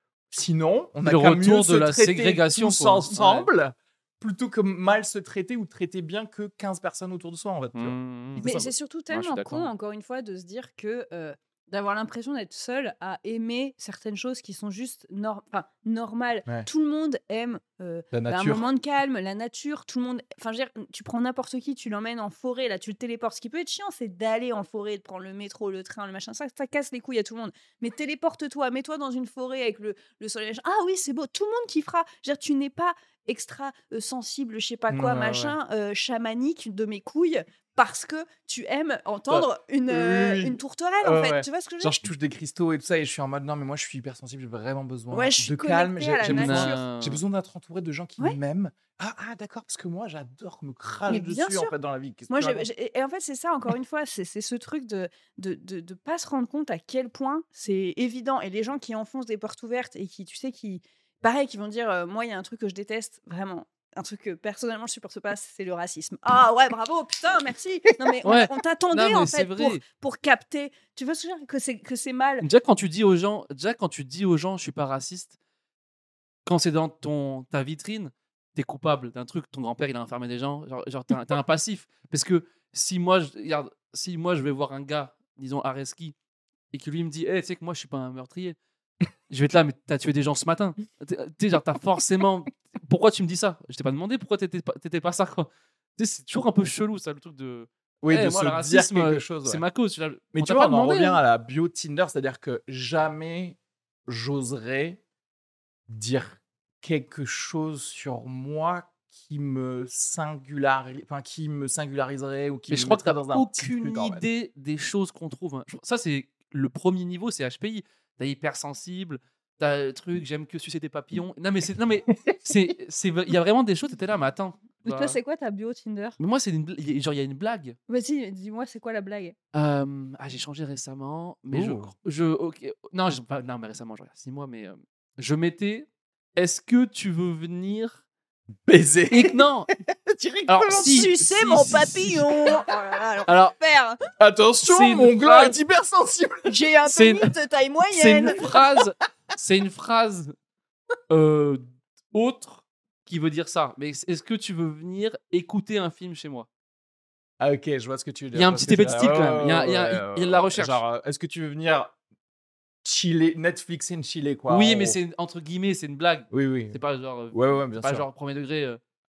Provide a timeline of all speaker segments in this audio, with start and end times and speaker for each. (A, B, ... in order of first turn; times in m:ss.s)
0:00.3-0:08.7 A
0:01.0-0:03.5 B
0:07.8-0:09.7 B
0:08.4-0:42.0 C
0:18.1-0:18.7 A
0:34.9-0:35.6 A
0:39.3-0:52.7 A
0:45.1-0:46.8 C
0:46.2-0:47.2 B
0:51.1-0:51.7 C
0:52.3-1:12.5 C
1:08.2-1:09.8 B
1:12.4-1:15.3 B
1:16.5-1:26.2 B
1:26.7-1:28.6 B
1:29.3-1:41.2 B
1:38.0-1:39.6 A
1:40.3-1:43.6 A
1:44.1-1:45.0 A
1:45.9-1:54.2 A
1:52.7-2:05.2 B
2:02.1-2:02.4 A
2:04.9-2:06.2 C
2:06.2-2:07.8 B
2:07.9-2:09.4 C
2:09.5-2:18.0 B
2:11.5-2:11.9 A
2:18.7-2:21.7 A
2:19.1-2:19.7 B
2:20.5-2:22.3 B
2:20.7-2:24.0 C
2:22.3-2:22.6 A
2:23.3-2:23.6 B
2:24.2-2:26.6 A
2:24.7-2:25.6 B
2:26.5-2:28.6 C
2:26.9-2:27.3 B
2:27.9-2:30.4 B
2:31.1-2:36.5 B
2:37.4-2:41.9 A
2:38.3-2:40.8 B
2:42.8-2:45.0 A
2:44.5-2:48.8 B
2:46.3-2:46.8 A
2:47.3-2:48.1 A